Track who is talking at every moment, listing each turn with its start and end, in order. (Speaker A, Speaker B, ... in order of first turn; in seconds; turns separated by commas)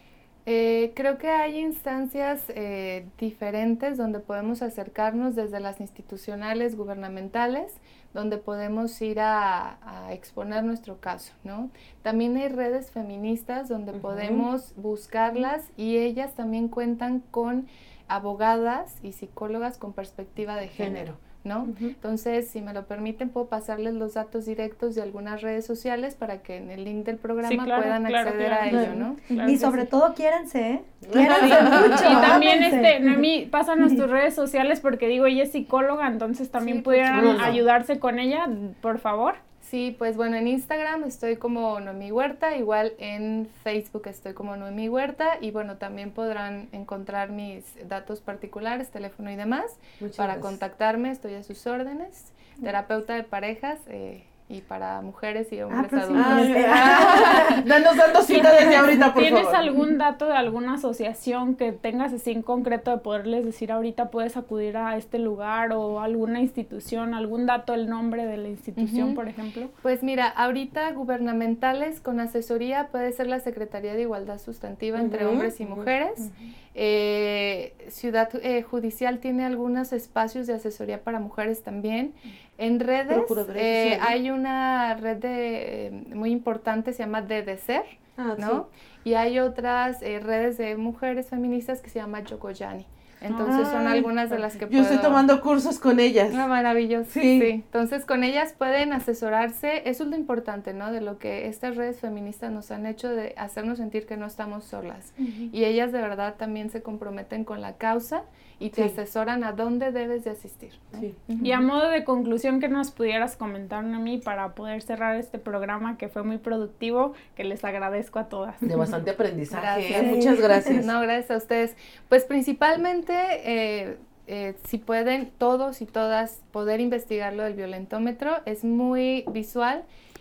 Speaker A: 0.5-29.6, Speaker B: 13.9-14.5, Speaker B: 20.8-21.2, Speaker C: 21.6-21.9, Speaker D: 27.4-29.9, Speaker C: 28.7-33.3, Speaker B: 31.0-32.5, Speaker D: 31.3-39.4, Speaker A: 36.6-37.6, Speaker B: 37.1-37.6, Speaker A: 39.6-57.7, Speaker B: 50.0-50.5, Speaker C: 55.7-57.6, Speaker B: 56.1-59.7, Speaker D: 58.3-69.7, Speaker A: 68.8-69.2, Speaker A: 69.8-95.3, Speaker B: 75.0-75.9, Speaker B: 83.1-84.2, Speaker B: 88.2-88.6, Speaker D: 93.3-93.7, Speaker B: 93.5-94.1, Speaker B: 94.7-96.4, Speaker A: 96.3-111.7, Speaker B: 97.1-97.5, Speaker C: 105.2-105.5, Speaker D: 111.4-118.7, Speaker B: 118.6-120.9, Speaker A: 119.5-129.8, Speaker C: 119.9-120.8